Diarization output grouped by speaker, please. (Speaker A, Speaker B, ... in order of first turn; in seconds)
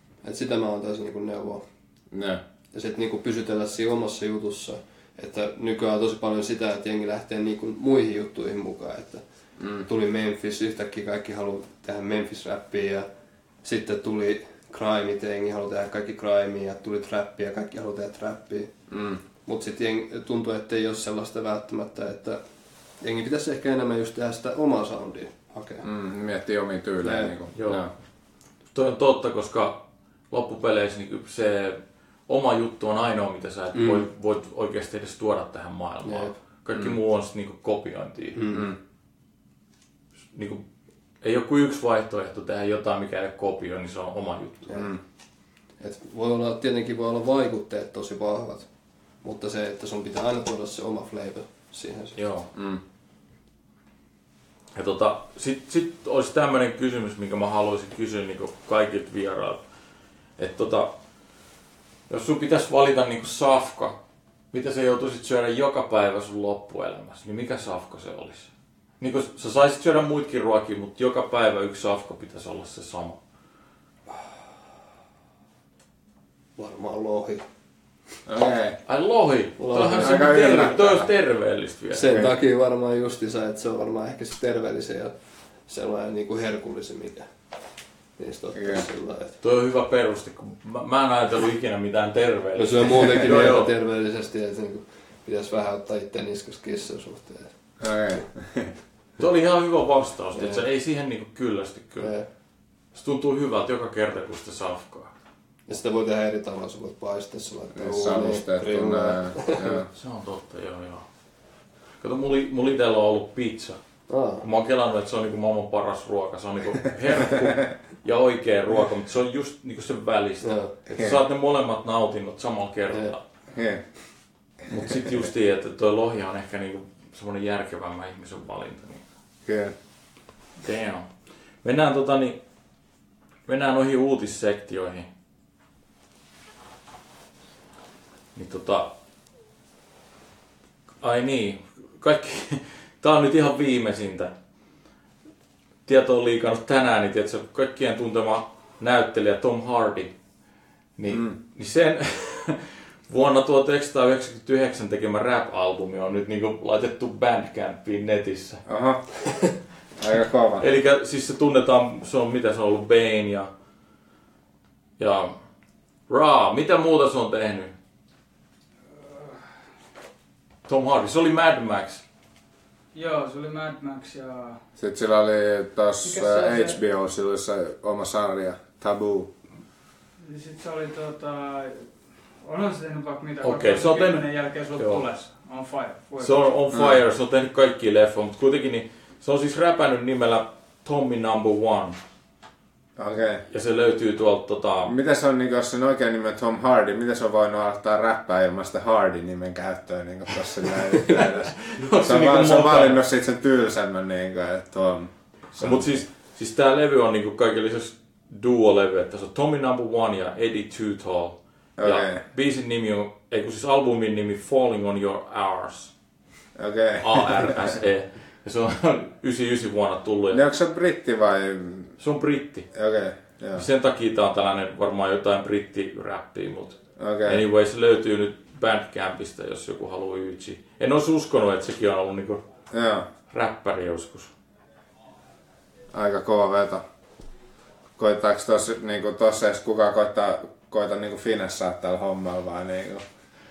Speaker A: 0.2-1.6, 2.7-9.2, 9.8-13.1, 13.6-18.7, 19.4-22.4, 23.0-25.9, 27.0-27.3, 33.7-34.0, 36.0-36.3, 38.3-38.7, 45.8-48.7, 49.2-52.2, 76.6-77.4, 79.6-80.6, 81.9-85.1, 85.7-87.3, 88.2-89.4, 92.5-97.7, 100.3-100.6, 102.0-102.3, 105.7-109.8, 114.1-114.4, 120.4-120.7
Speaker B: 2.1-2.4, 9.6-9.8, 18.9-19.2, 25.8-27.9, 36.7-37.0, 38.5-38.8, 52.5-52.8, 78.2-78.8, 79.9-81.1, 88.5-88.8, 97.8-98.8, 107.7-109.9, 123.5-123.8, 129.4-129.7, 151.1-151.3, 158.7-159.2, 160.0-160.6, 174.8-179.3, 186.7-187.0, 193.0-193.4, 194.8-206.0, 211.8-212.2, 216.6-217.7, 220.3-221.9, 222.7-223.6, 227.0-227.4, 232.7-233.1, 235.9-236.8, 238.0-243.0
Speaker C: 27.5-27.9, 28.7-38.4, 40.3-40.6, 41.2-44.9, 52.1-52.5, 54.7-59.6, 60.4-60.9, 62.1-64.0, 64.5-73.2, 78.8-82.2, 89.4-93.7, 99.2-102.1, 102.9-105.1, 109.9-111.1, 112.0-113.8, 114.4-123.2, 124.7-129.0, 130.6-132.4, 133.5-135.1, 138.3-138.9, 141.0-144.3, 145.8-150.1, 151.0-158.6, 160.6-163.5, 165.0-165.3, 166.1-167.7, 170.7-172.0, 183.4-185.1, 186.2-192.0, 193.5-194.9, 201.6-203.0, 205.6-215.9, 217.0-220.4, 222.0-222.7, 223.5-232.4, 233.3-234.3
Speaker D: 172.9-174.6, 176.0-176.8, 180.2-186.4